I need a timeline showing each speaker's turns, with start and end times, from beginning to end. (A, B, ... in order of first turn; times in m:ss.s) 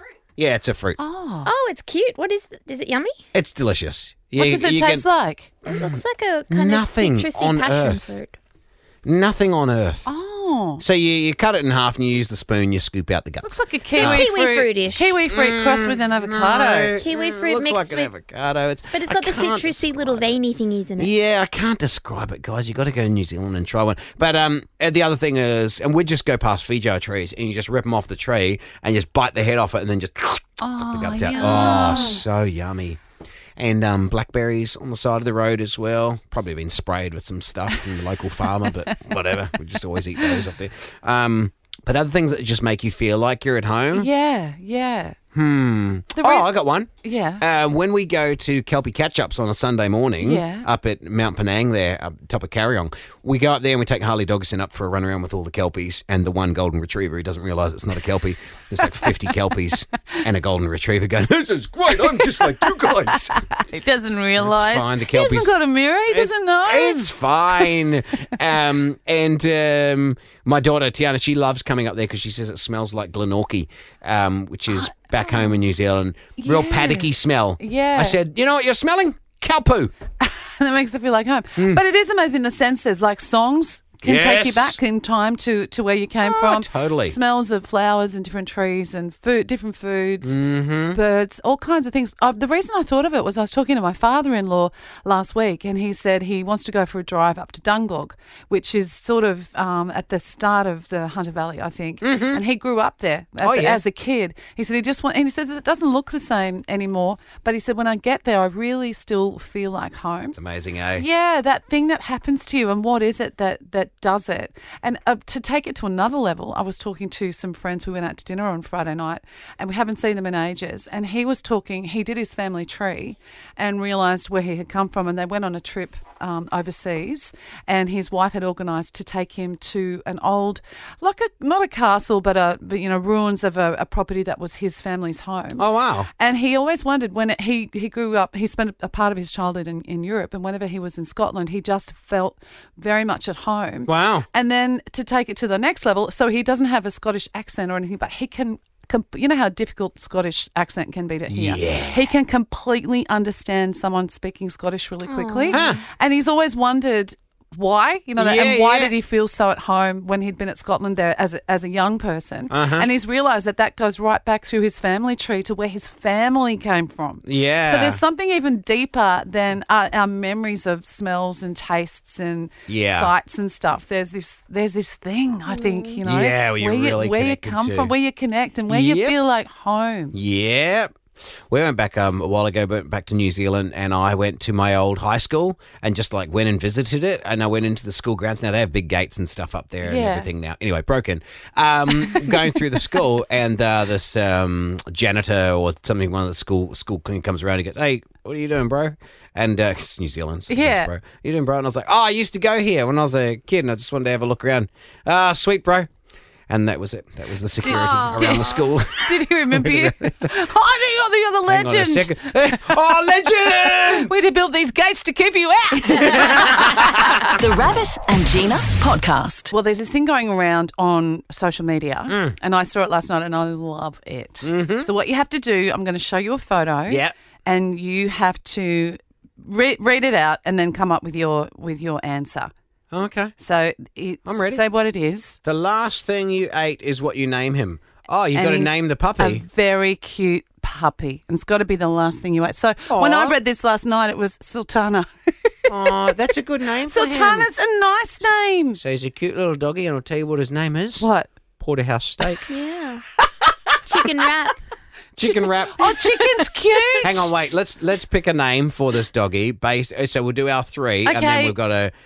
0:00.4-0:01.0 A
0:01.0-0:01.5 B
0:01.4-0:03.2 C
0:03.3-0:05.0 A
0:04.4-0:05.5 B
0:05.6-0:08.2 A
0:05.7-0:08.4 C
0:09.0-0:10.1 A
0:10.1-0:10.8 B
0:10.8-0:14.3 A
0:13.4-0:17.0 B
0:13.9-0:15.1 C
0:15.3-0:20.4 A
0:17.0-0:18.2 C
0:18.9-0:21.1 C
0:21.0-0:33.0 A
0:30.6-0:32.2 B
0:31.4-0:32.0 C
0:33.6-0:44.1 A
0:38.7-0:39.0 B
0:43.9-0:45.2 B
0:45.4-1:03.3 A
0:46.1-0:47.4 B
0:50.2-0:50.7 B
1:02.4-1:07.7 B
1:04.4-1:05.5 A
1:06.1-1:19.9 A
1:16.4-1:18.2 B
1:20.2-1:50.4 B
1:21.6-1:21.8 A
1:24.0-1:24.8 A
1:26.2-1:27.2 A
1:30.2-1:31.0 A
1:42.0-1:42.4 A
1:43.4-1:43.8 A
1:50.4-1:51.1 A
1:51.0-3:00.2 B
2:15.6-2:16.1 A
2:23.9-2:24.3 A
2:31.3-2:32.1 A
2:35.0-2:35.8 C
2:35.5-2:35.8 A
2:38.2-2:38.9 A
2:42.5-2:42.9 A
2:47.2-2:48.0 A
2:52.7-2:53.1 A
2:55.5-2:56.0 C
2:56.0-2:57.9 A
2:58.7-2:59.2 A
3:00.1-3:00.9 A
3:01.5-3:25.9 A
3:09.8-3:10.3 B
3:20.5-3:20.9 B
3:26.5-3:30.3 A
3:27.6-3:36.9 B
3:27.7-3:28.6 C
3:31.5-3:34.1 A
3:35.9-3:37.1 A
3:36.8-3:39.5 D
3:39.5-3:52.5 B
3:42.1-3:42.4 A
3:44.4-3:44.9 A
3:46.9-3:47.1 A
3:52.9-3:53.3 A
3:53.4-3:55.4 B
3:54.2-3:54.6 A
3:55.4-3:59.4 A
3:58.3-4:05.9 B
4:02.9-4:03.4 A
4:05.7-4:07.5 A
4:06.9-4:08.8 B
4:08.8-4:11.1 A
4:11.0-4:11.3 B
4:11.6-4:12.5 A
4:12.5-4:13.0 C
4:13.8-4:14.6 C
4:15.2-4:16.4 A
4:15.2-4:17.3 B
4:17.0-4:21.9 A
4:21.0-4:21.6 B